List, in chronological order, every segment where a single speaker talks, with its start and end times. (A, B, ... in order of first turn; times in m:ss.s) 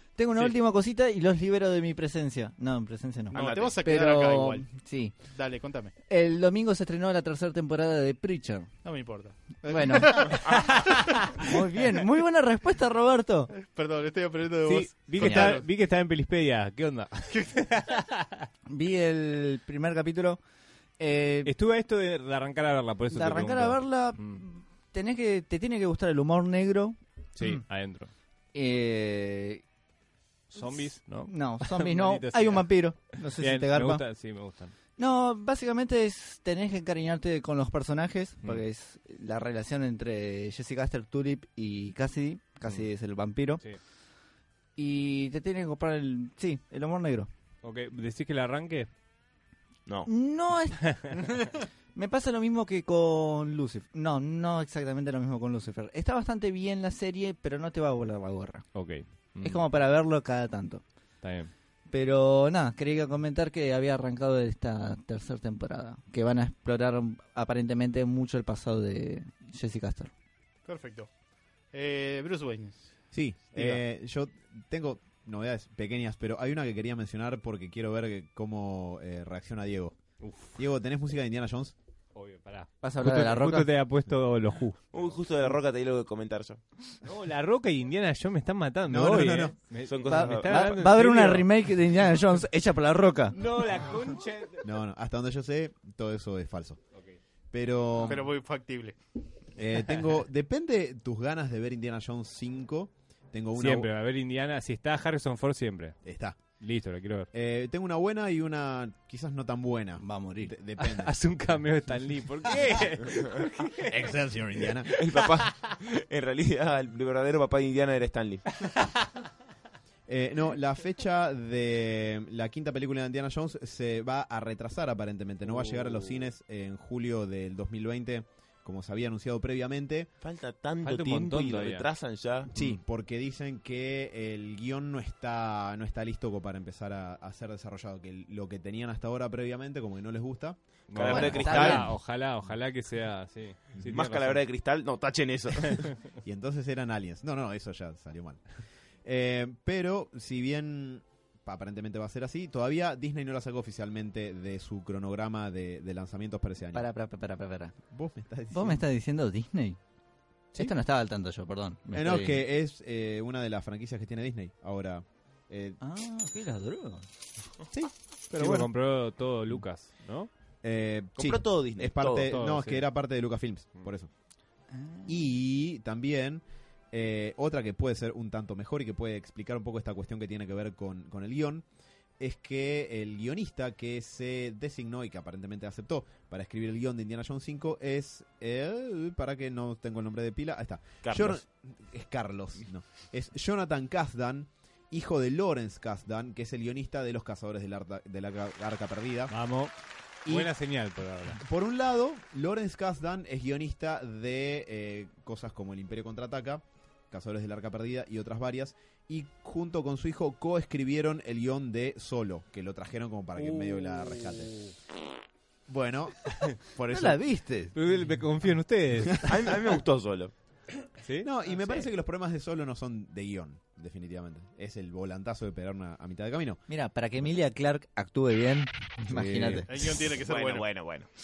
0:00.2-0:05.2 A
0:03.3-0:04.7 B
0:03.3-0:03.8 C
0:05.3-0:05.9 B
0:06.1-0:08.7 A
0:08.8-0:11.5 B
0:09.6-0:13.5 A
0:10.3-0:10.9 C
0:13.6-0:15.7 B
0:14.6-0:18.5 D
0:18.7-0:20.4 A
0:21.0-0:21.5 A
0:21.4-0:24.4 D
0:23.1-0:27.6 A
0:27.4-0:28.1 D
0:28.5-0:29.6 A
0:30.5-0:32.7 D
0:31.3-0:34.0 A
0:33.4-0:34.7 D
0:35.0-0:43.6 A
0:44.8-0:47.3 A
0:47.6-0:48.9 D
0:50.0-0:51.4 A
0:50.8-0:51.2 D
0:51.9-0:58.6 A
0:58.7-0:59.6 D
0:59.4-1:00.8 A
1:01.2-1:01.5 D
1:01.9-1:10.1 A
1:10.6-1:11.1 B
1:11.7-1:12.9 B
1:13.1-1:20.0 E
1:13.5-1:13.8 B
1:20.2-1:20.6 D
1:20.6-1:21.7 E
1:22.1-1:24.8 D
1:22.8-1:23.7 A
1:24.9-1:26.6 C
1:27.0-1:31.7 D
1:28.9-1:29.6 E
1:29.8-1:30.8 C
1:30.1-1:33.4 A
1:33.3-1:34.6 D
1:34.6-1:36.8 E
1:37.5-1:38.2 E
1:38.0-1:39.0 B
1:39.6-1:43.9 E
1:43.5-1:46.0 D
1:46.0-1:46.4 E
1:46.6-1:47.3 D
1:47.3-1:51.1 E
1:50.0-1:50.5 A
1:50.8-1:54.0 D
1:52.5-1:52.8 E
1:53.1-1:53.4 C
1:53.8-1:54.9 E
1:54.8-1:58.5 C
2:00.1-2:10.1 E
2:05.5-2:06.0 D
2:10.2-2:12.5 C
2:10.8-2:11.8 D
2:12.5-2:20.6 E
2:20.9-2:24.4 D
2:20.9-2:21.9 C
2:21.0-2:21.9 A
2:21.1-2:21.6 E
2:23.9-2:25.9 C
2:26.2-2:28.4 E
2:29.0-2:36.8 E
2:36.7-2:37.7 A
2:37.9-2:38.8 E
2:38.5-2:39.8 A
2:40.5-2:42.4 A
2:41.9-2:45.8 E
2:45.8-2:47.1 A
2:47.7-2:48.7 E
2:48.4-2:50.3 D
2:50.6-2:54.1 E
2:51.2-2:52.4 C
2:52.3-2:52.8 D
2:54.7-2:55.1 A
2:55.0-3:01.6 E
3:02.2-3:19.3 E
3:11.0-3:11.4 C
3:19.3-3:19.7 D
3:20.2-3:20.5 E
3:20.2-3:21.4 D
3:21.3-3:34.5 E
3:35.7-3:37.2 E
3:36.9-3:37.7 A
3:37.7-3:39.5 D
3:39.2-3:40.3 C
3:41.0-3:41.3 D
3:41.2-3:46.6 E
3:46.7-3:49.7 A
3:49.0-3:49.7 E
3:49.7-3:50.7 B
3:50.2-3:51.1 C